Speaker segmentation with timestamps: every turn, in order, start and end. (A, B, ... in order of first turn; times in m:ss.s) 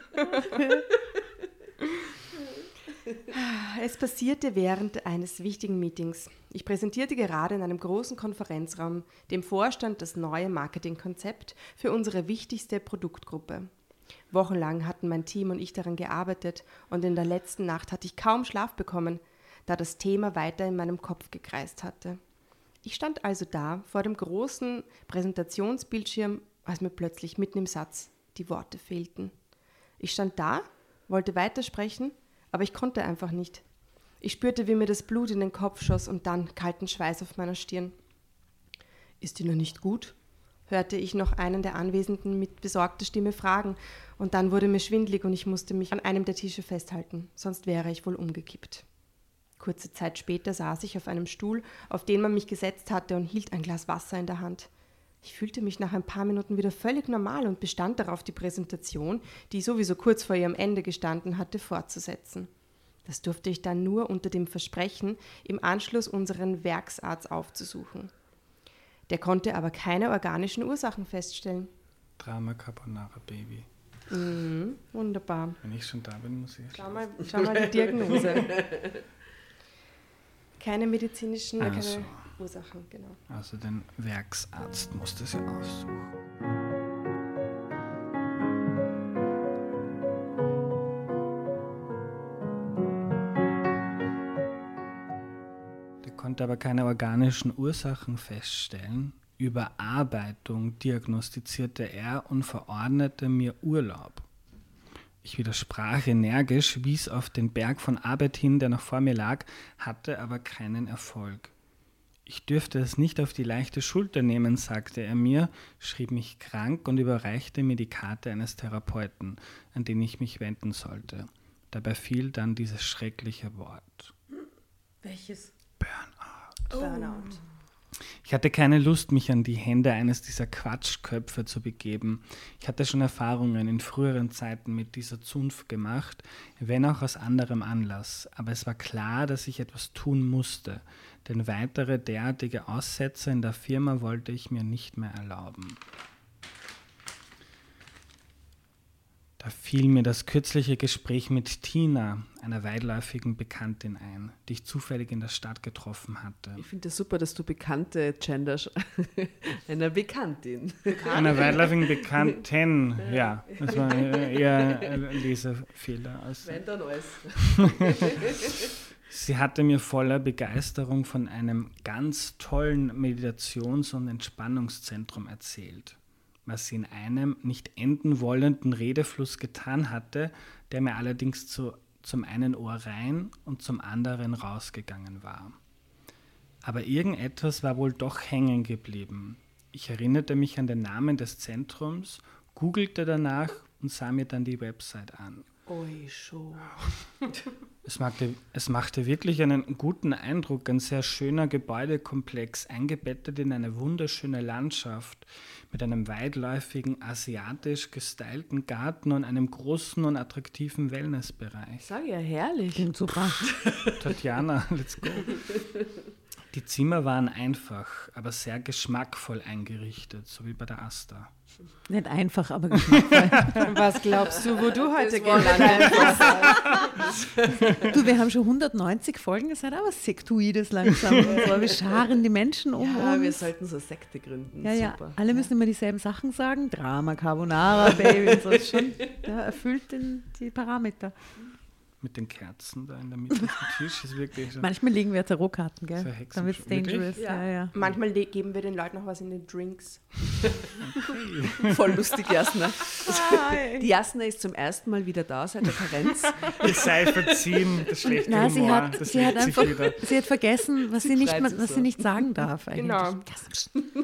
0:00.5-0:00.8 A
0:03.3-0:13.7 B
0:14.3-0:22.2 B
0:22.8-0:29.3 B
0:30.0-0:33.6 B
0:34.2-0:37.9 B
0:39.2-0:40.2 B
0:40.7-0:48.8 B
0:49.6-0:54.7 B
0:55.2-1:02.5 B
1:03.0-1:08.1 B
1:09.1-1:11.7 B
1:12.2-1:13.7 C
1:14.1-1:15.6 B
1:15.6-1:17.0 C
1:16.7-1:18.7 B
1:17.3-1:19.0 D
1:20.6-1:23.2 B
1:21.6-1:22.2 C
1:23.3-1:26.1 C
1:36.0-1:44.3 C
1:45.2-1:51.5 C
1:52.3-2:04.1 C
2:05.0-2:05.5 A
2:05.8-2:06.8 C
2:06.7-2:07.4 A
2:06.8-2:07.4 B
2:07.9-2:25.8 C
2:29.4-2:36.7 C
2:36.6-2:42.2 D
2:40.9-2:41.7 B
2:41.1-2:46.6 C
2:43.0-2:45.2 D
2:46.4-2:48.7 D
2:47.6-2:48.1 C
2:49.1-3:05.6 C
3:06.6-3:15.5 C
3:15.7-3:17.3 B
3:17.8-3:31.9 C
3:31.8-3:34.1 D
3:32.8-3:33.4 A
3:34.0-3:35.6 C
3:35.3-3:35.6 D
3:36.5-3:41.3 C
3:41.9-3:43.7 A
3:42.9-3:43.6 C
3:43.5-3:47.1 B
3:44.1-3:47.9 D
3:47.8-3:53.4 A
3:51.2-3:52.0 D
3:52.8-3:55.4 D
3:54.6-4:01.1 A
3:57.8-3:59.0 D
4:02.0-4:04.7 C
4:04.6-4:07.7 A
4:06.0-4:07.2 C
4:07.2-4:07.5 D
4:07.7-4:11.2 B
4:10.9-4:11.8 C
4:11.6-4:17.0 D
4:13.0-4:13.9 A
4:16.6-4:20.2 C
4:18.0-4:23.7 A
4:20.9-4:22.3 D
4:22.8-4:23.2 B